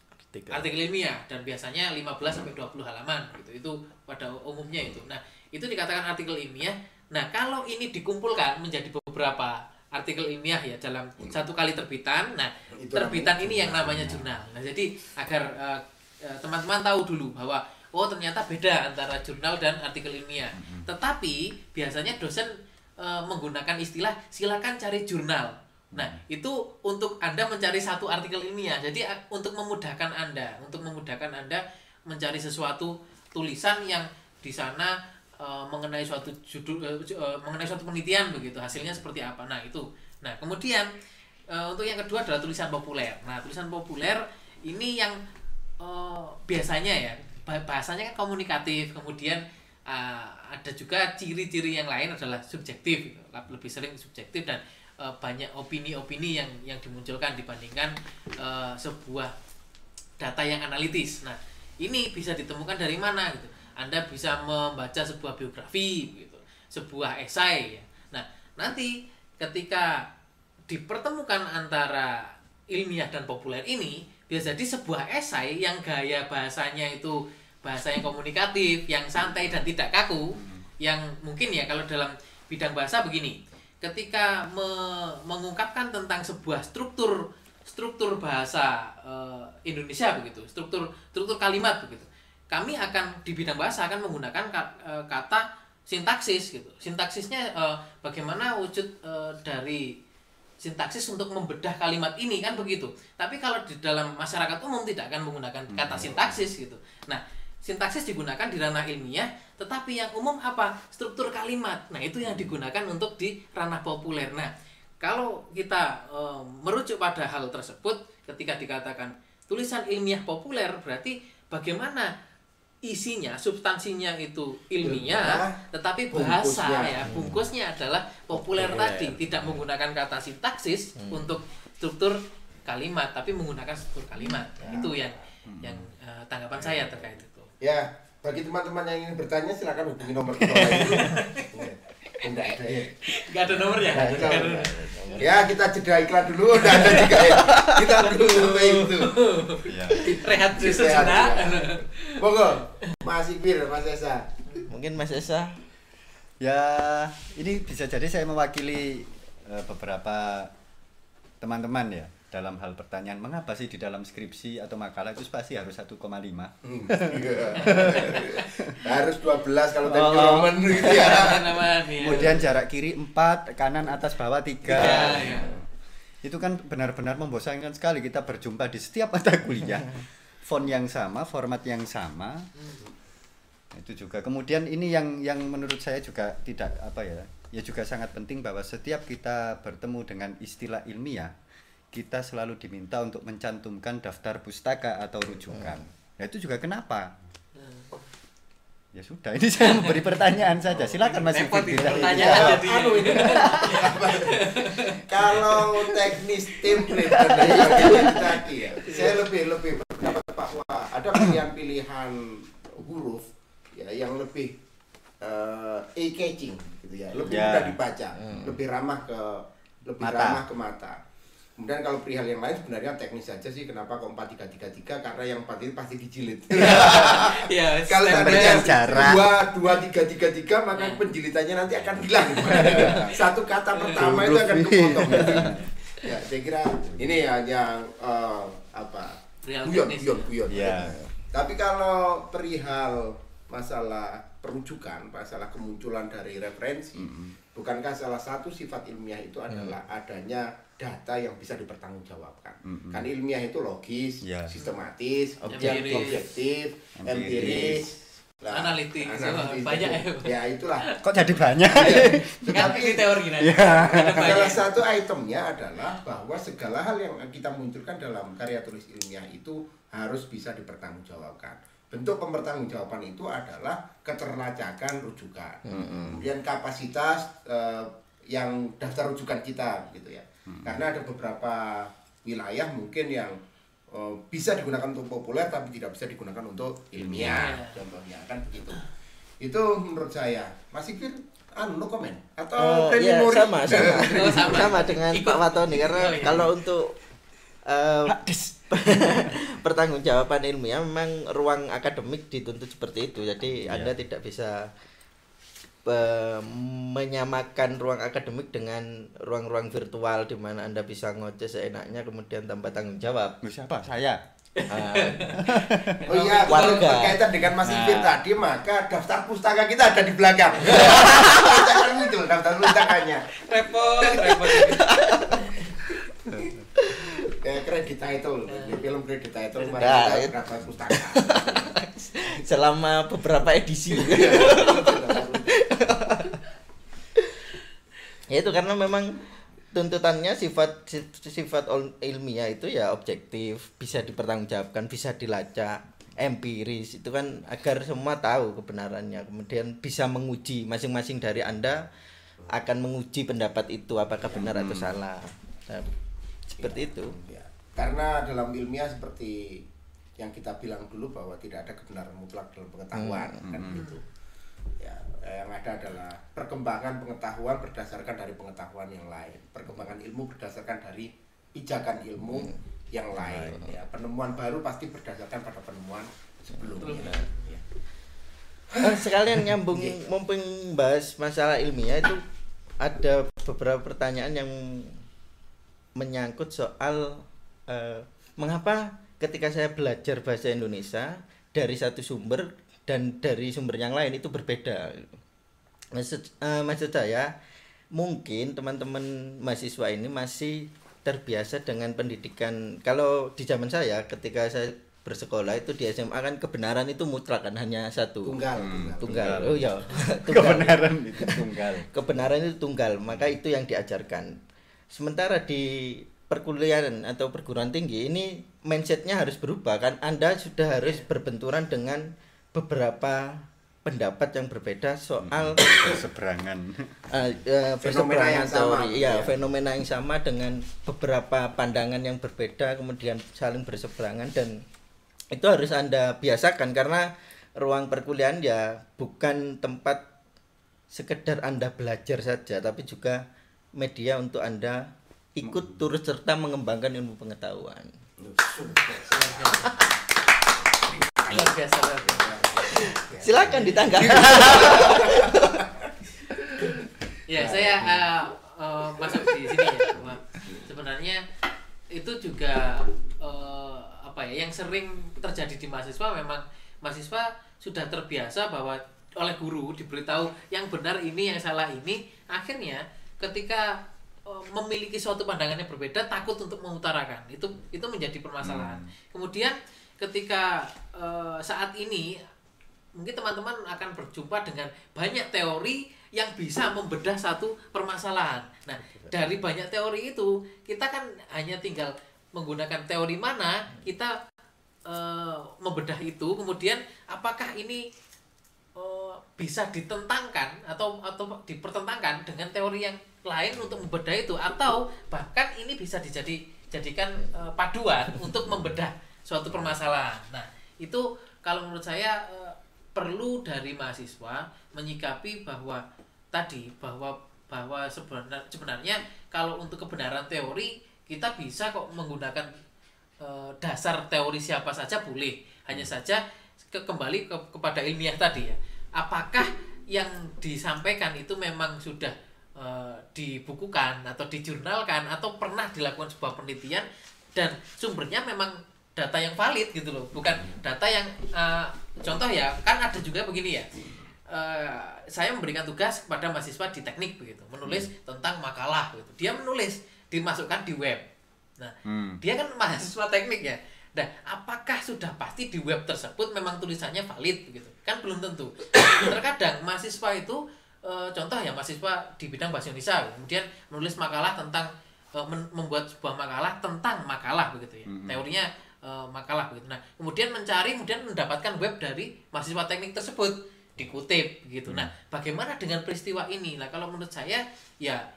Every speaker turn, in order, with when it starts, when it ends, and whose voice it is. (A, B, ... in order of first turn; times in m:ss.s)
0:00.2-0:00.7 A
0:00.5-0:40.9 B
0:12.8-0:13.8 C
0:13.7-0:14.3 D
0:20.6-0:20.8 D
0:41.5-0:45.2 B
0:45.8-0:59.3 B
1:00.2-1:09.9 B
1:10.7-1:39.9 B
1:20.4-1:20.6 D
1:40.6-1:54.5 B
1:45.7-1:46.4 D
1:52.2-1:52.5 D
1:55.0-2:02.1 B
2:02.8-2:17.5 B
2:04.8-2:05.6 C
2:06.1-2:07.0 C
2:07.0-2:07.4 A
2:08.6-2:09.2 A
2:09.3-2:09.6 D
2:11.0-2:11.3 A
2:14.6-2:14.9 C
2:15.4-2:15.9 D
2:16.6-2:17.1 D
2:17.6-2:23.0 C
2:20.5-2:20.9 D
2:20.8-2:21.5 B
2:23.0-2:25.2 B
2:23.8-2:24.6 C
2:23.8-2:25.4 A
2:25.2-2:29.3 C
2:26.5-2:27.3 B
2:27.3-2:27.9 A
2:28.0-2:32.2 B
2:29.6-2:30.1 D
2:29.9-2:34.6 C
2:34.6-2:35.6 A
2:36.4-2:40.5 D
2:41.4-2:48.7 D
2:46.6-2:52.4 C
2:47.6-2:48.5 B
2:49.8-2:51.4 D
2:50.7-2:52.4 B
2:52.0-2:55.6 D
2:54.7-2:55.5 B
2:54.8-2:55.1 C
2:54.8-2:55.4 A
2:56.2-3:02.5 D
3:03.7-3:11.3 D
3:11.9-3:17.1 D
3:15.5-3:15.8 A
3:17.6-3:18.0 B
3:18.9-3:23.9 D
3:19.6-3:20.0 B
3:21.0-3:26.0 B
3:21.9-3:34.6 C
3:27.0-3:28.1 B
3:27.7-3:27.9 A
3:28.8-3:29.2 B
3:35.2-3:41.0 C
3:37.2-3:37.8 D
3:38.2-3:38.6 A
3:40.0-3:40.4 D
3:41.6-4:23.3 C
3:46.5-3:48.8 B
3:48.1-3:49.4 D
3:50.7-3:51.0 B
3:51.8-3:53.2 D
3:52.4-3:53.1 B
3:53.7-3:54.0 B
3:54.0-3:55.7 D
3:59.4-4:00.3 B
4:00.4-4:01.1 D
4:07.0-4:07.3 D
4:09.5-4:09.8 A
4:12.6-4:13.0 D
4:14.2-4:14.5 D
4:15.4-4:15.9 A
4:15.5-4:16.2 B
4:17.0-4:17.8 D
4:17.3-4:17.8 A
4:18.5-4:21.0 B
4:21.0-4:24.5 D
4:22.4-4:24.6 B
4:23.9-4:43.4 C
4:35.6-4:36.3 A
4:40.5-4:40.8 D
4:43.9-4:48.9 C
4:47.0-4:47.5 D
4:47.2-4:47.8 B
4:49.4-4:54.9 C
4:52.6-4:57.0 A
4:54.0-4:56.5 B
4:57.7-5:04.7 A
5:03.6-5:03.9 D
5:05.8-5:13.4 A
5:13.4-5:14.2 D
5:14.5-5:17.0 B
5:14.7-5:17.3 A
5:15.4-5:15.8 D
5:16.0-5:23.4 C
5:17.6-5:18.2 D
5:20.7-5:21.8 A
5:23.4-5:25.9 B
5:24.1-5:24.6 C
5:24.4-5:25.4 A
5:26.8-5:27.2 A
5:27.2-5:31.7 C
5:28.5-5:28.8 B
5:29.7-5:30.3 A
5:30.8-5:36.4 A
5:33.9-5:35.9 C
5:38.3-5:51.8 A
5:52.5-5:55.9 A
5:54.3-5:55.0 D
5:56.6-5:57.2 A
5:56.6-5:59.6 C
6:00.2-6:04.0 C
6:02.9-6:03.4 A
6:03.4-6:03.8 D
6:03.7-6:04.0 B
6:04.8-6:17.6 C
6:13.2-6:13.6 D
6:16.8-6:17.5 B
6:16.8-6:17.2 A
6:18.7-6:19.0 C
6:18.8-6:22.2 A
6:22.8-6:25.0 A
6:26.0-6:35.2 A
6:35.9-6:37.3 A
6:37.9-6:48.5 A
6:48.2-6:49.6 C
6:48.6-6:51.9 D
6:49.0-6:54.4 A
6:54.9-7:06.0 A
7:05.2-7:07.0 D
7:07.1-7:14.6 A
7:07.8-7:09.3 C
7:15.3-7:20.0 A
7:20.9-7:23.2 A
7:23.8-7:27.9 A
7:25.4-7:25.8 D
7:28.2-7:29.9 C
7:29.1-7:29.8 B
7:30.7-7:35.9 C
7:31.3-7:32.3 B
7:32.7-7:35.6 A
7:36.5-7:36.8 C
7:37.3-7:41.2 B
7:37.4-7:38.0 C
7:39.0-7:40.6 C
7:41.9-7:53.8 B
7:54.3-8:02.2 B
7:58.4-7:58.9 D
8:03.0-8:14.1 B
8:14.8-8:17.8 B
8:18.8-8:35.8 B
8:36.3-8:42.5 B
8:43.2-9:03.7 B
9:04.3-9:11.0 B
9:11.6-9:38.0 B
9:11.8-9:12.2 D
9:27.9-9:28.2 D